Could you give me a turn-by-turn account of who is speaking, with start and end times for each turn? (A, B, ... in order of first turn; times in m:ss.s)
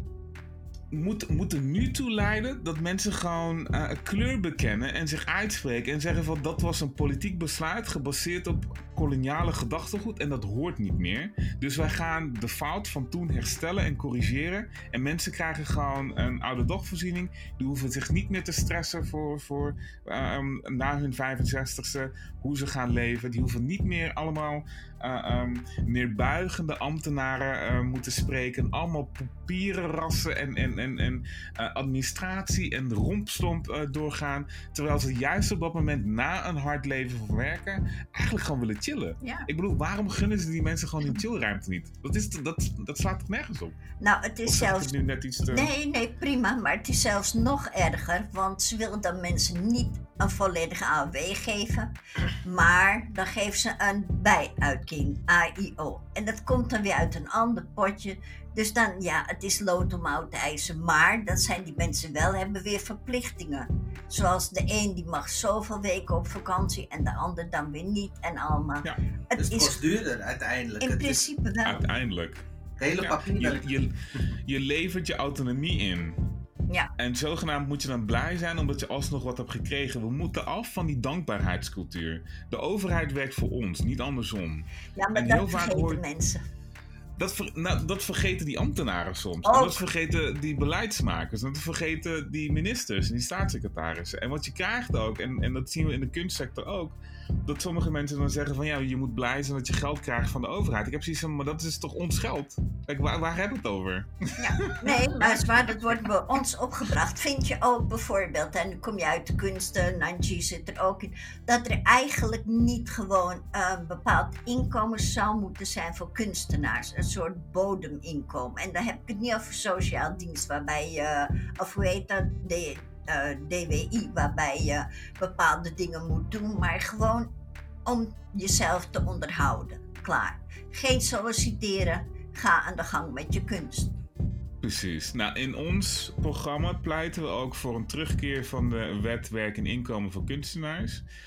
0:00.9-0:43.8 A
0:39.2-0:39.5 B
0:44.0-0:44.9 B
0:44.4-0:45.7 A
0:45.5-0:51.9 B
0:52.4-1:09.8 B
1:09.4-1:11.2 C
1:10.8-1:11.8 B
1:11.6-1:12.4 A
1:12.8-1:13.7 C
1:13.0-1:13.9 A
1:14.4-1:16.2 A
1:17.0-1:26.0 A
1:25.0-1:26.4 B
1:27.2-1:45.4 A
1:29.4-1:29.8 B
1:44.4-2:07.3 B
2:07.8-2:14.0 B
2:14.6-2:21.0 A